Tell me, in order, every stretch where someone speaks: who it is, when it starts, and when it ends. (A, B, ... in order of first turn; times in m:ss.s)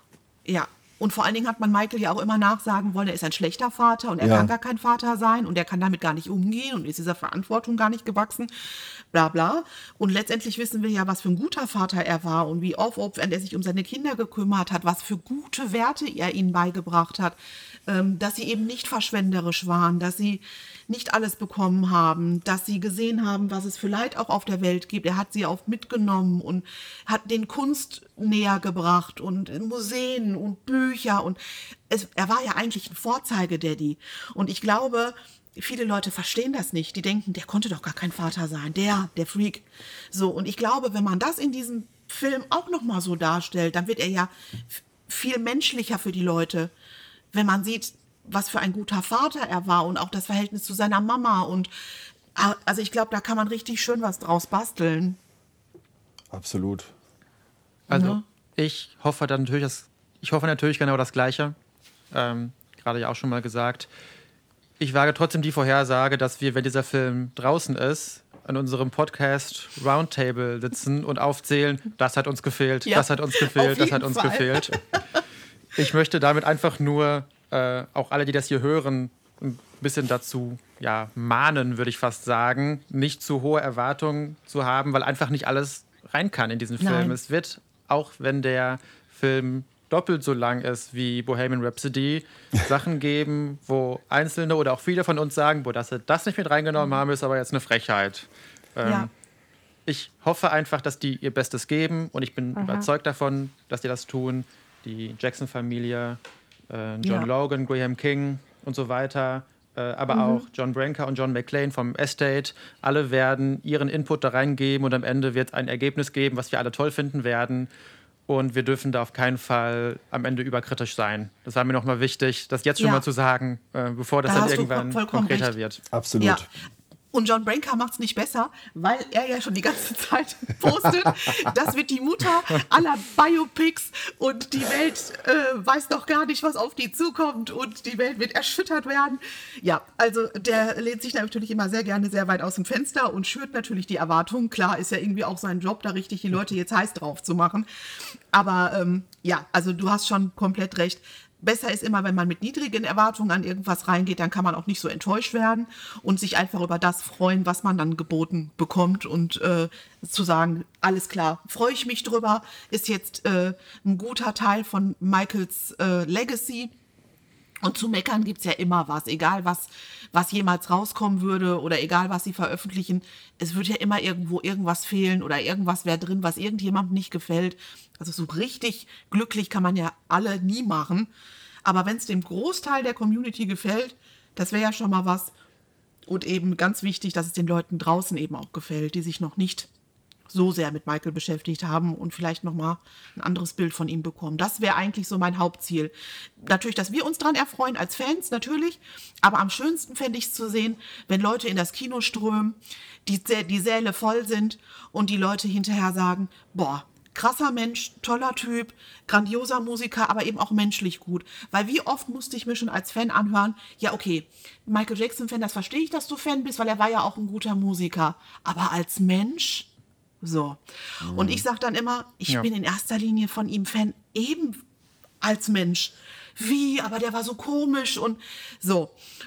0:00.5-0:46.7 A
0:04.2-0:04.5 B
0:47.3-0:51.7 A
0:52.4-0:55.2 A
0:56.3-0:56.9 B
0:57.9-1:01.6 C
0:57.9-0:58.2 A
1:02.1-1:03.9 C
1:04.8-1:14.8 C
1:12.9-1:15.0 A
1:15.8-1:39.1 C
1:26.8-1:27.2 A
1:39.9-1:57.7 C
1:42.6-1:42.9 A
1:47.0-1:47.3 A
1:50.1-1:50.4 A
1:58.3-2:05.8 C
2:02.8-2:03.0 A
2:04.2-2:05.5 A
2:05.9-2:06.5 B
2:06.2-2:06.5 A
2:07.1-2:27.7 A
2:28.3-2:46.7 A
2:47.6-3:01.1 A
3:01.6-3:05.3 A
3:06.1-3:09.7 A
3:10.3-3:39.7 A
3:40.2-3:44.6 A
3:41.0-3:41.4 B
3:45.2-3:49.0 A